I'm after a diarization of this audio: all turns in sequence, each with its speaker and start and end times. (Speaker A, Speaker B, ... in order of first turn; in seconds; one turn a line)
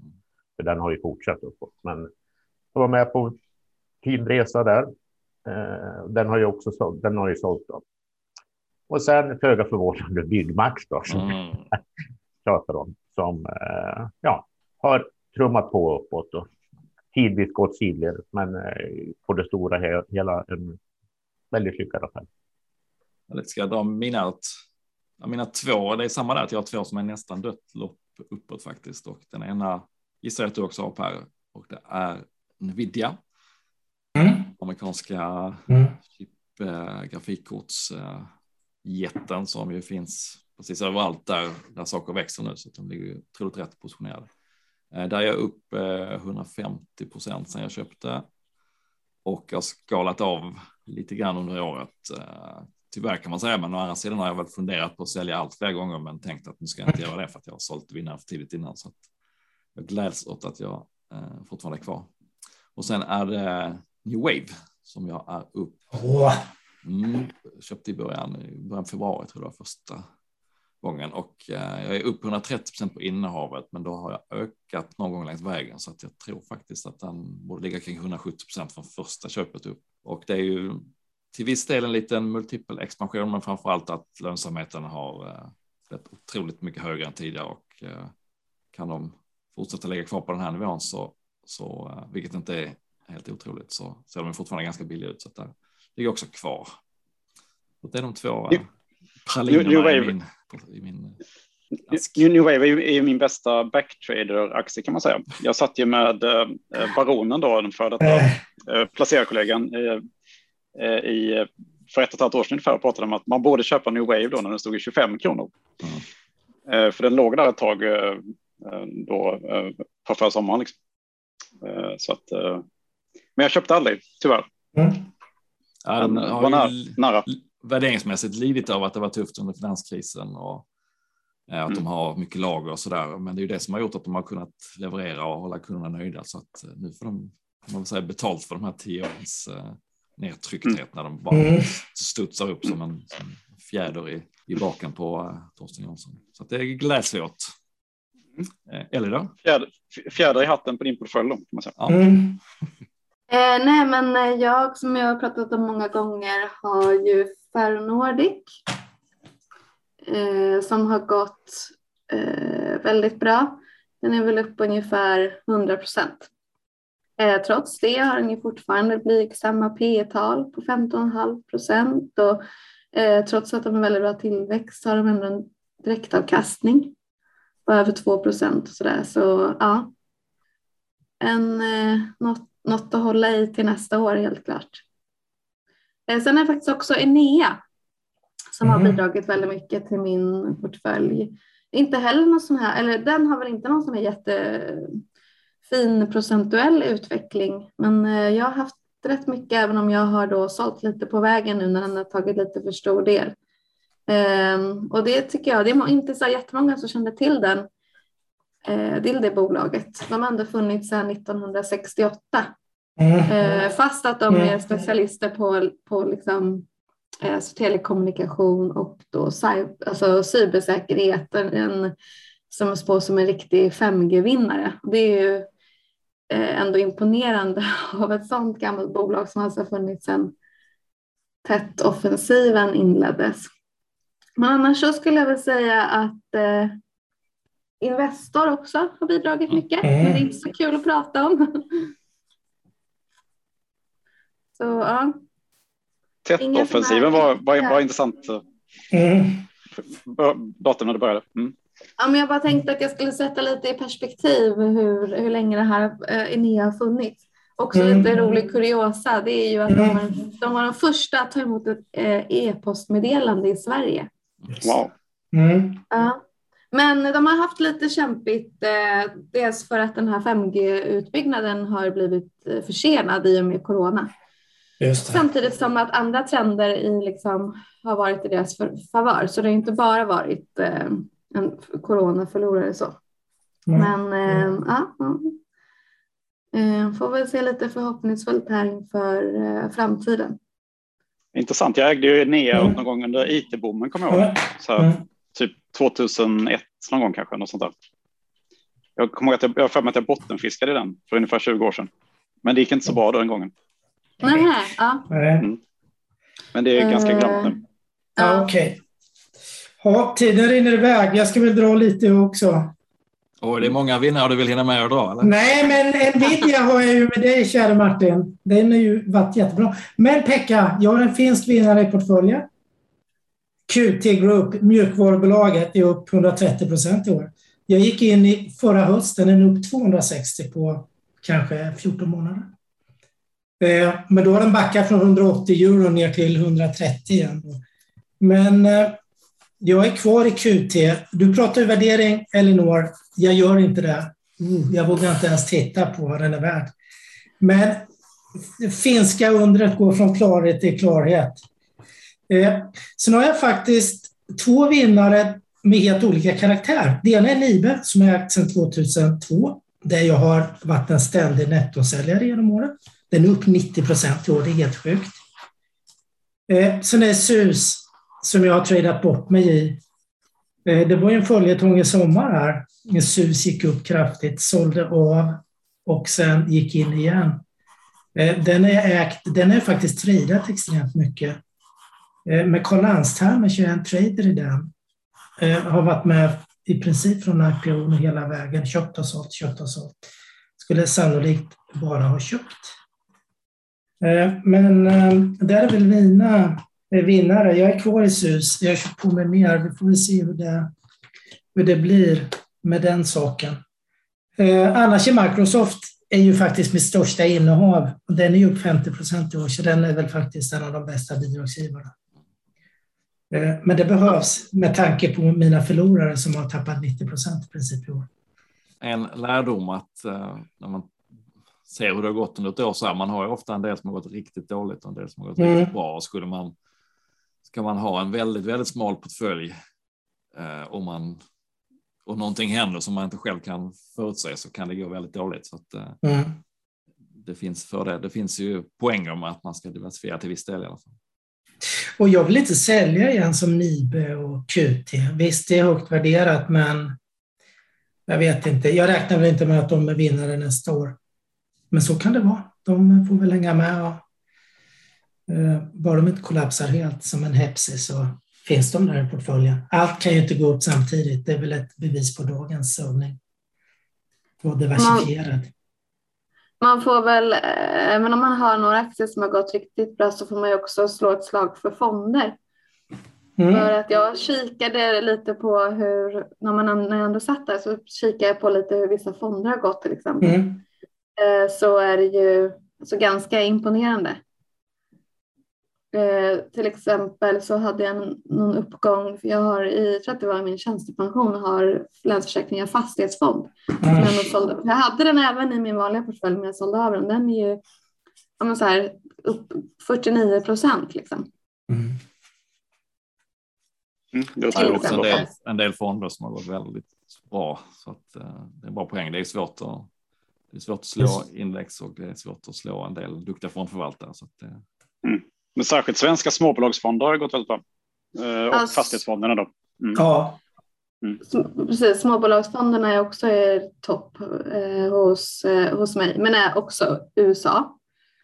Speaker A: 0.6-2.1
Speaker A: 2.7-3.3
Speaker A: 4.0-4.9
Speaker A: 5.5-7.8
Speaker A: 8.9-11.3
Speaker B: 11.1-11.7
Speaker A: 12.4-16.5
Speaker A: 17.1-20.8
Speaker A: 21.5-22.3
Speaker B: 23.3-24.5
Speaker B: 25.2-33.2
Speaker C: 34.1-34.5
Speaker B: 34.5-38.3
Speaker C: 35.7-35.9
Speaker B: 38.8-44.3
Speaker B: 44.9-48.2
Speaker B: 49.2-59.0
Speaker B: 59.7-62.1
Speaker B: 62.8-65.8
Speaker C: 65.9-66.4
Speaker B: 66.8-70.0
Speaker B: 70.8-88.1
Speaker B: 88.7-96.7
Speaker B: 97.8-98.7
Speaker B: 99.2-101.2
Speaker D: 99.5-100.1
Speaker B: 101.9-102.2
Speaker D: 101.9-110.0
Speaker C: 108.0-108.4
Speaker D: 110.8-115.5
Speaker D: 116.7-120.7
Speaker D: 121.6-122.6
Speaker D: 123.3-124.5
Speaker C: 124.7-125.0
Speaker B: 125.8-130.7
Speaker D: 126.0-127.3
Speaker B: 131.5-147.5
Speaker C: 141.3-141.7
Speaker B: 148.7-149.3
Speaker D: 149.4-151.8
Speaker C: 151.9-152.4
Speaker E: 153.3-158.5
Speaker E: 160.1-166.3
Speaker E: 167.2-172.4
Speaker E: 172.9-176.9
Speaker E: 177.7-179.9
Speaker E: 181.2-184.8
Speaker E: 186.1-187.6
Speaker E: 188.5-195.0
Speaker C: 188.6-189.0
Speaker E: 195.6-203.3
Speaker E: 204.1-207.7
Speaker E: 208.7-212.5
Speaker C: 213.0-213.5
Speaker E: 213.2-216.7
Speaker C: 214.3-214.6
Speaker E: 217.2-221.9
Speaker E: 222.5-225.5
Speaker E: 226.3-230.3
Speaker E: 231.4-233.5
Speaker E: 234.4-236.8
Speaker E: 237.8-241.9
Speaker C: 239.8-240.2
Speaker E: 244.5-245.2
Speaker D: 246.2-248.4
Speaker E: 246.4-247.8
Speaker C: 248.9-249.4
Speaker D: 249.9-251.5
Speaker E: 252.0-264.1
Speaker C: 257.7-258.1
Speaker C: 259.7-260.0
Speaker D: 264.6-264.9
Speaker C: 265.3-265.8
Speaker E: 265.9-266.2
Speaker E: 266.7-274.1
Speaker C: 274.8-275.2
Speaker E: 275.0-283.0
Speaker C: 283.7-284.5
Speaker E: 283.7-285.4
Speaker E: 286.5-290.4
Speaker D: 291.3-297.7
Speaker C: 294.1-295.0
Speaker D: 299.0-301.9
Speaker D: 302.4-303.5
Speaker E: 304.2-305.1
Speaker C: 304.2-304.5
Speaker C: 305.1-305.5
Speaker D: 306.5-307.6
Speaker E: 306.8-307.6
Speaker E: 308.2-308.5
Speaker C: 308.2-308.8
Speaker C: 309.8-312.7
Speaker B: 313.4-315.5
Speaker C: 315.2-322.5
Speaker C: 323.7-332.5
Speaker C: 333.6-337.6
Speaker C: 338.2-338.9
Speaker C: 339.6-346.7
Speaker C: 347.4-347.9
Speaker C: 348.6-351.4
Speaker C: 352.3-365.1
Speaker C: 366.5-369.8
Speaker C: 370.6-377.4
Speaker C: 378.1-381.4
Speaker C: 382.2-384.7
Speaker C: 385.4-390.1
Speaker C: 390.6-392.7
Speaker C: 394.0-400.7
Speaker C: 401.5-403.6
Speaker C: 404.4-411.9
Speaker C: 413.3-418.1
Speaker B: 418.8-420.9
Speaker B: 421.6-426.5
Speaker C: 425.4-425.7
Speaker B: 427.5-429.6
Speaker B: 430.3-431.2
Speaker B: 432.0-436.0
Speaker C: 436.0-436.4
Speaker B: 437.2-440.9
Speaker C: 442.0-446.9
Speaker C: 448.1-451.0
Speaker C: 451.7-454.0
Speaker C: 455.3-463.2
Speaker C: 464.4-465.5
Speaker E: 464.8-465.1
Speaker E: 466.6-472.4
Speaker C: 473.4-473.7
Speaker E: 473.5-480.5
Speaker C: 480.2-480.6
Speaker E: 481.2-484.2
Speaker E: 485.9-497.6
Speaker C: 493.8-494.2
Speaker E: 498.4-501.3
Speaker C: 501.7-502.0
Speaker D: 504.1-505.3
Speaker B: 504.5-509.9
Speaker E: 504.5-505.3
Speaker B: 510.5-514.6
Speaker D: 515.0-517.6
Speaker D: 518.1-520.0
Speaker E: 518.5-519.0
Speaker C: 520.0-520.4
Speaker E: 521.2-527.8